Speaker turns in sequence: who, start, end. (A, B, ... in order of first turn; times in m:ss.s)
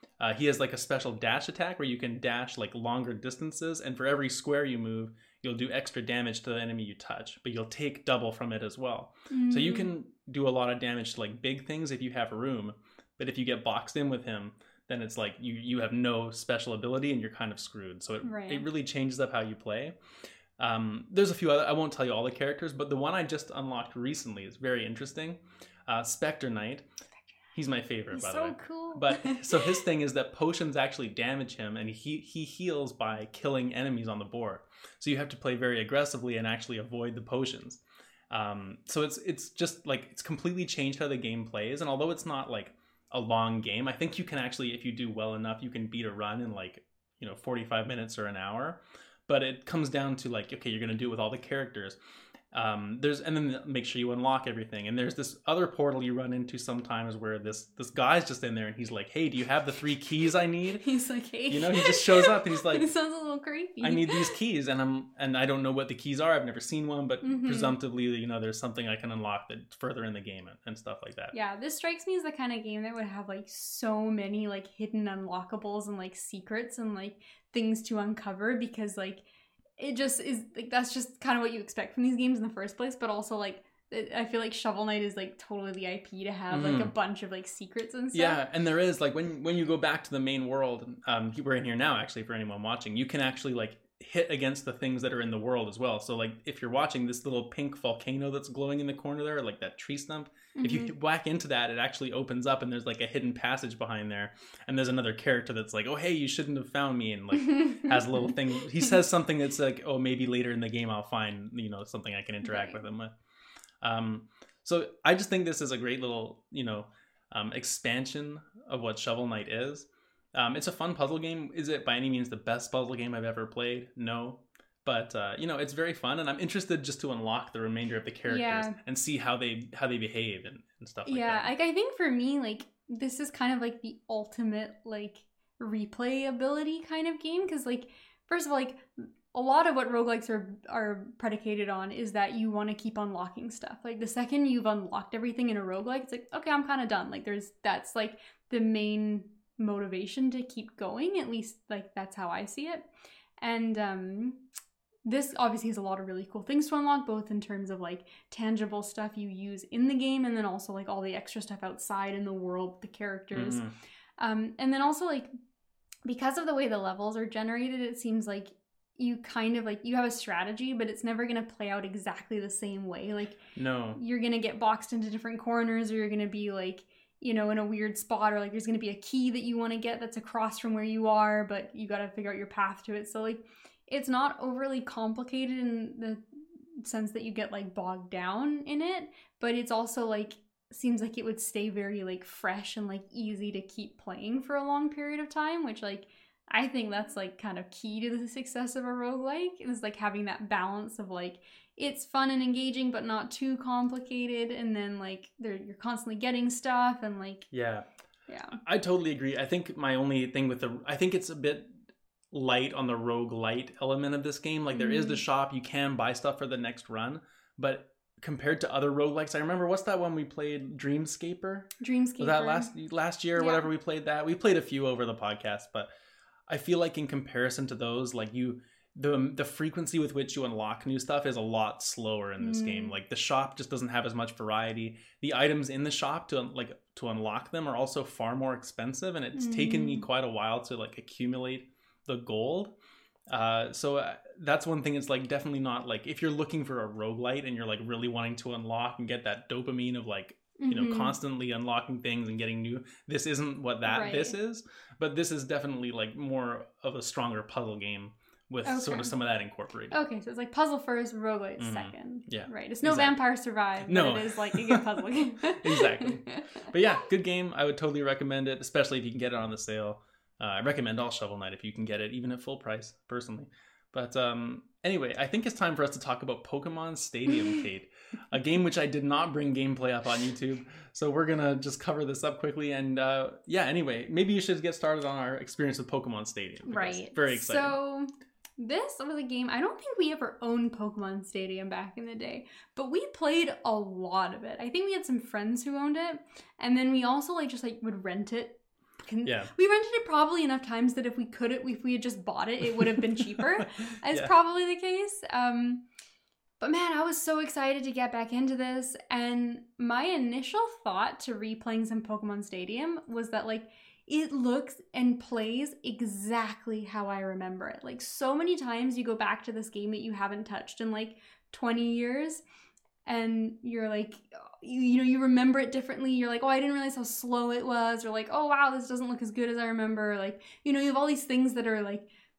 0:00.2-0:20.0 A
0:09.3-0:09.9 B
0:18.2-0:18.7 B
0:20.6-0:26.9 A
0:27.5-0:52.0 A
0:28.1-0:29.8 B
0:52.5-1:00.8 A
1:00.8-1:04.4 B
1:01.5-1:02.9 A
1:03.8-1:11.3 A
1:07.2-1:07.8 B
1:11.3-1:19.2 B
1:19.8-1:28.4 B
1:26.5-1:26.9 A
1:28.1-1:53.1 A
1:40.6-1:40.9 B
1:47.4-1:48.4 B
1:52.4-1:52.8 B
1:53.8-2:11.5 A
2:08.3-2:08.8 B
2:11.1-2:32.8 B
2:33.4-2:34.4 B
2:35.1-2:43.6 B
2:43.3-2:43.7 A
2:44.2-2:45.3 B
2:46.1-2:53.4 B
2:53.6-2:54.0 A
2:54.0-3:06.2 B
3:06.8-3:27.5 B
3:27.5-3:27.9 A
3:28.3-3:28.6 B
3:28.6-3:31.8 A
3:32.3-3:45.9 A
3:34.7-3:35.2 B
3:41.8-3:42.7 B
3:43.4-3:43.7 B
3:46.5-4:02.7 A
3:52.4-3:53.0 B
3:59.4-4:00.1 B
4:03.3-4:20.0 A
4:10.6-4:11.2 B
4:13.8-4:14.4 B
4:18.6-4:19.1 B
4:19.9-4:26.7 B
4:21.6-4:23.2 A
4:23.8-4:47.8 A
4:46.7-5:05.8 B
4:59.2-4:59.5 A
5:02.8-5:04.3 A
5:06.6-5:22.4 B
5:23.0-5:32.1 B